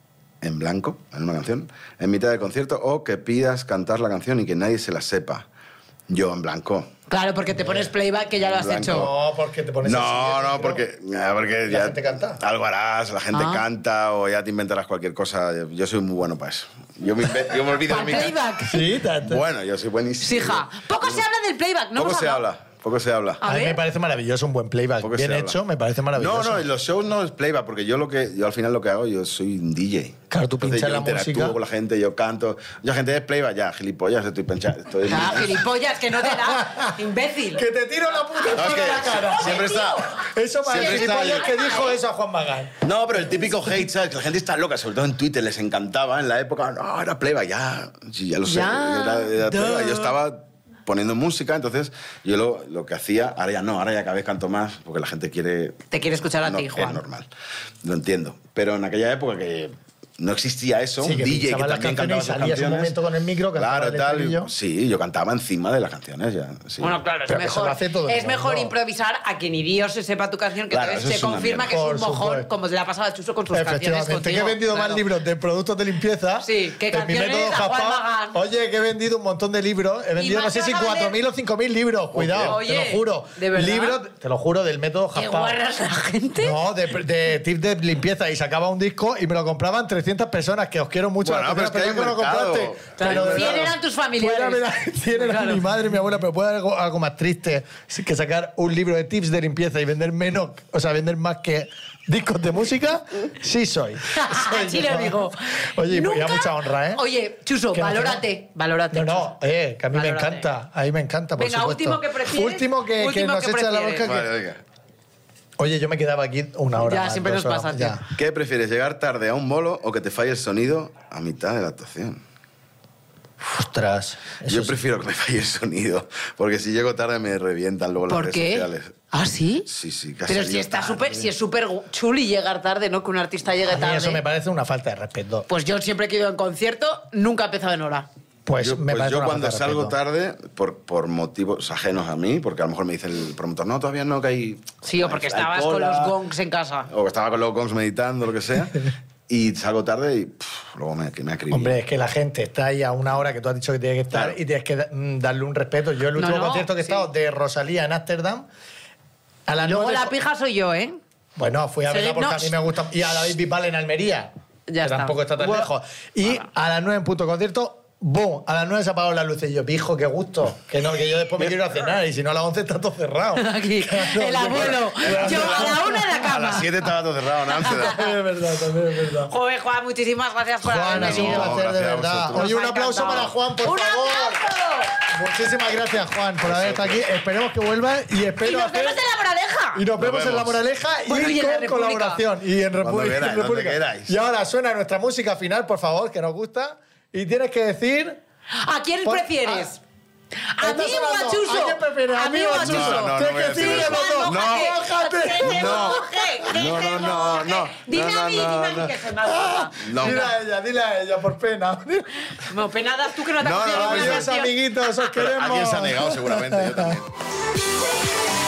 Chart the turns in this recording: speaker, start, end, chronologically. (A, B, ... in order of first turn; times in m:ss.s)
0:00.4-0:05.4 A
0:06.1-0:06.9 A
0:07.1-0:09.1 B
0:08.4-0:09.1 A
0:08.9-0:10.8 C
0:09.8-0:18.4 A
0:11.7-0:12.4 C
0:13.3-0:13.6 B
0:17.9-0:18.8 B
0:18.7-0:19.4 C
0:19.2-0:21.2 A
0:20.2-0:22.4 B
0:22.0-0:23.4 A
0:23.4-0:23.8 B
0:23.4-0:26.7 C
0:25.0-0:25.6 A
0:26.1-0:35.6 A
0:30.3-0:31.6 C
0:35.0-0:37.6 B
0:36.2-0:37.0 C
0:37.6-0:42.8 C
0:38.3-0:42.0 B
0:38.5-0:40.1 A
0:40.6-0:41.5 A
0:42.8-0:57.3 A
0:48.4-0:50.1 B
0:55.9-0:57.0 B
0:57.8-1:03.0 A
1:01.0-1:04.5 C
1:03.6-1:07.0 A
1:06.8-1:15.0 B
1:07.3-1:08.7 C
1:10.7-1:11.7 A
1:11.7-1:12.5 C
1:13.5-1:25.6 C
1:16.4-1:18.4 B
1:20.2-1:21.2 B
1:22.1-1:22.6 A
1:22.4-1:24.0 B
1:25.1-1:26.6 B
1:26.4-1:47.0 C
1:31.2-1:33.7 A
1:33.0-1:35.6 B
1:44.1-1:49.4 B
1:47.7-1:48.2 C
1:48.9-1:54.3 C
1:49.9-1:50.5 B
1:51.4-1:54.1 B
1:54.0-1:54.6 A
1:55.6-1:58.0 C
1:56.8-1:58.0 B
1:58.1-2:02.2 A
2:03.4-2:04.8 C
2:04.4-2:09.0 A
2:08.1-2:09.7 B
2:09.7-2:11.3 A
2:10.3-2:14.2 B
2:13.7-2:15.5 C
2:15.5-2:18.1 B
2:18.4-2:20.0 C
2:18.6-2:26.2 A
2:24.8-2:26.9 B
2:26.9-2:31.8 A
2:31.5-2:38.5 C
2:34.1-2:34.4 A
2:36.2-2:37.0 B
2:39.5-2:40.1 C
2:39.6-2:41.0 B
2:41.4-2:44.3 C
2:41.9-2:42.5 B
2:44.7-2:45.7 B
2:44.8-2:56.2 C
2:53.4-2:56.7 B
2:54.5-2:58.0 A
2:57.6-2:58.1 B
2:57.6-2:59.3 C
2:59.3-3:01.6 B
3:00.6-3:04.4 C
3:00.9-3:03.3 A
3:02.3-3:04.9 B
3:05.1-3:09.0 C
3:06.5-3:07.0 A
3:08.4-3:09.8 B
3:09.7-3:18.2 C
3:10.0-3:10.6 A
3:11.1-3:12.2 B
3:12.8-3:14.1 A
3:18.5-3:19.8 B
3:19.0-3:19.7 C
3:20.5-3:30.3 B
3:20.6-3:27.2 C
3:22.5-3:24.8 A
3:25.4-3:29.0 A
3:29.3-3:32.2 C
3:29.8-3:30.3 A
3:32.4-3:34.5 B
3:33.4-3:34.4 A
3:33.7-3:37.0 C
3:35.1-3:37.1 A